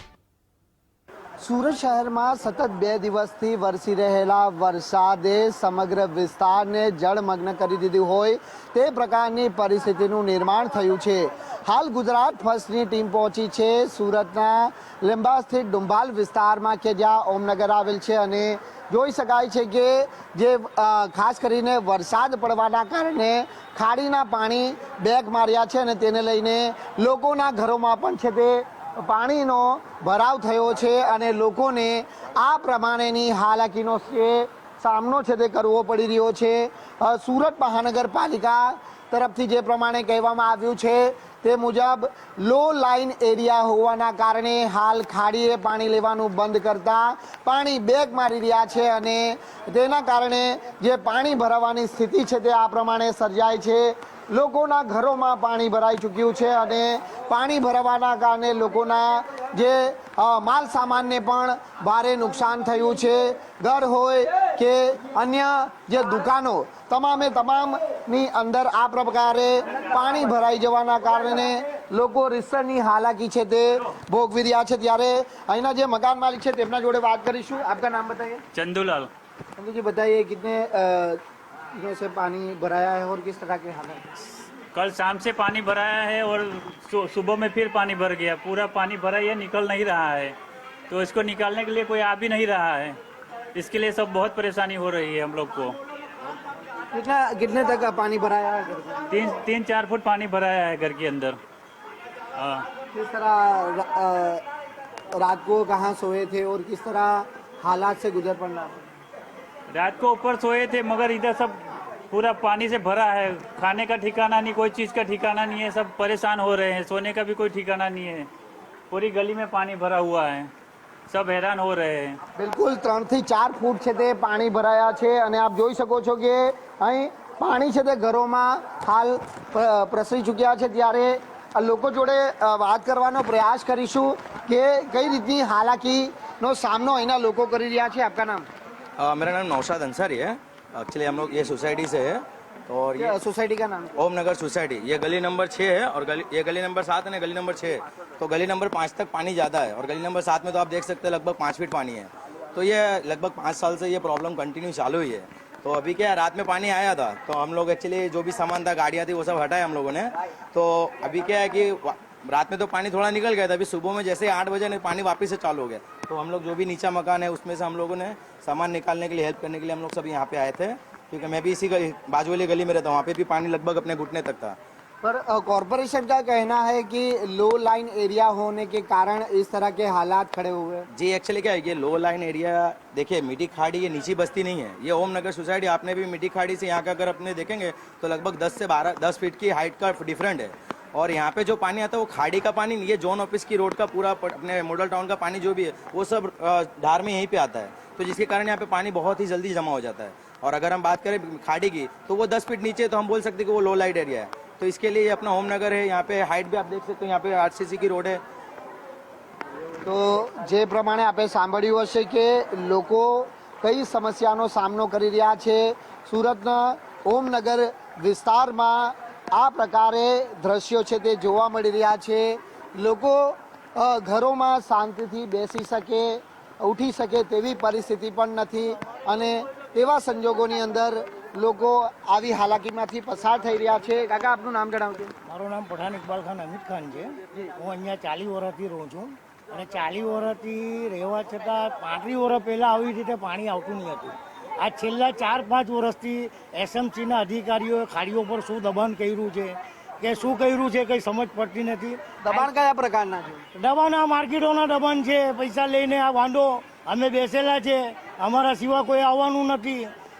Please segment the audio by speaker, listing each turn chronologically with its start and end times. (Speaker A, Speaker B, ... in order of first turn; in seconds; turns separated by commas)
Speaker A: 1.4-78.4, Speaker B: 78.5-79.1, Speaker A: 79.6-81.2, Speaker A: 81.7-84.0, Speaker B: 84.7-90.4, Speaker B: 90.9-93.0, Speaker B: 93.5-95.8, Speaker A: 96.9-99.0, Speaker B: 99.1-101.4, Speaker B: 102.4-102.7, Speaker A: 102.9-104.4, Speaker A: 105.1-108.8, Speaker B: 109.7-118.3, Speaker B: 118.9-120.5, Speaker B: 121.1-122.2, Speaker A: 122.4-138.4, Speaker C: 139.0-143.2, Speaker A: 143.0-143.9, Speaker C: 143.9-174.6, Speaker A: 175.0-180.9, Speaker C: 180.9-208.2, Speaker A: 209.8-235.1, Speaker D: 235.3-252.5, Speaker A: 252.2-253.4, Speaker D: 253.6-259.9